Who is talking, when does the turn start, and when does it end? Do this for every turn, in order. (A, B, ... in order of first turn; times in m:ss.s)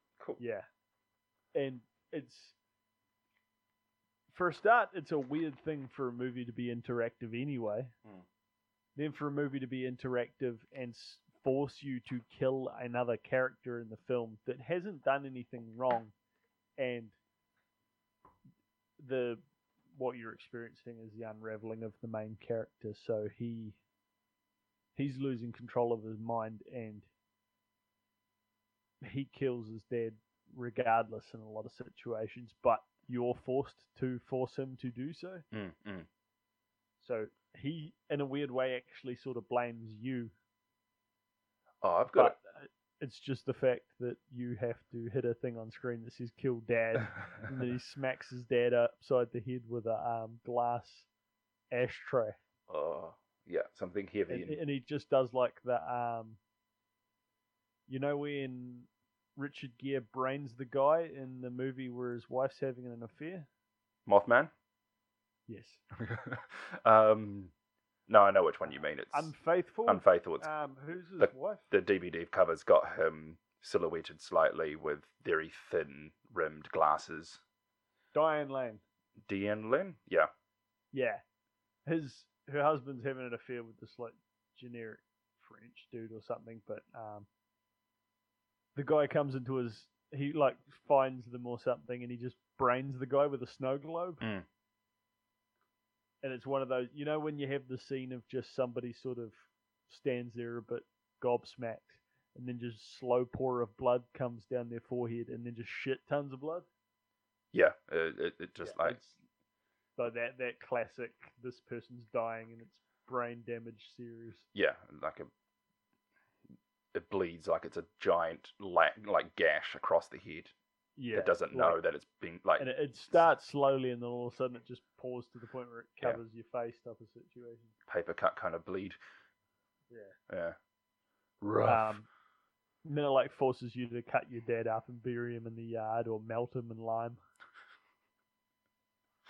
0:00.4-0:00.7 A
0:01.6-0:02.6 A
0:04.3-0:07.9 A
0:09.0-0:16.1 A
0:16.8-0:17.2 A
0:19.0-0:19.4 A
0:19.9-0:23.8 A
0:25.0-0:27.1 A
0:29.0-0:35.4 A
0:35.5-0:36.1 B
0:37.0-0:40.3 A
0:41.8-0:42.4 B
0:42.1-0:51.1 A
0:51.7-0:52.4 A
0:52.7-0:54.6 B
0:54.3-0:56.4 A
0:57.9-1:03.5 A
1:04.1-1:04.5 B
1:05.5-1:05.8 A
1:06.0-1:07.5 B
1:08.1-1:09.3 B
1:09.1-1:11.7 A
1:09.9-1:10.5 B
1:11.2-1:17.4 B
1:18.1-1:18.8 A
1:19.2-1:20.3 B
1:20.9-1:21.2 A
1:21.9-1:27.3 A
1:28.8-1:34.2 A
1:34.2-1:34.5 B
1:36.2-1:46.7 A
1:47.5-1:49.0 B
1:48.6-1:49.2 A
1:50.0-1:54.5 A
1:54.5-1:55.3 B
1:56.9-2:00.6 B
2:01.0-2:01.8 A
2:01.1-2:03.2 B
2:02.6-2:07.8 A
2:07.9-2:09.0 B
2:09.9-2:10.2 A
2:10.3-2:10.6 B
2:11.4-2:12.0 B
2:11.6-2:12.1 A
2:12.8-2:17.2 A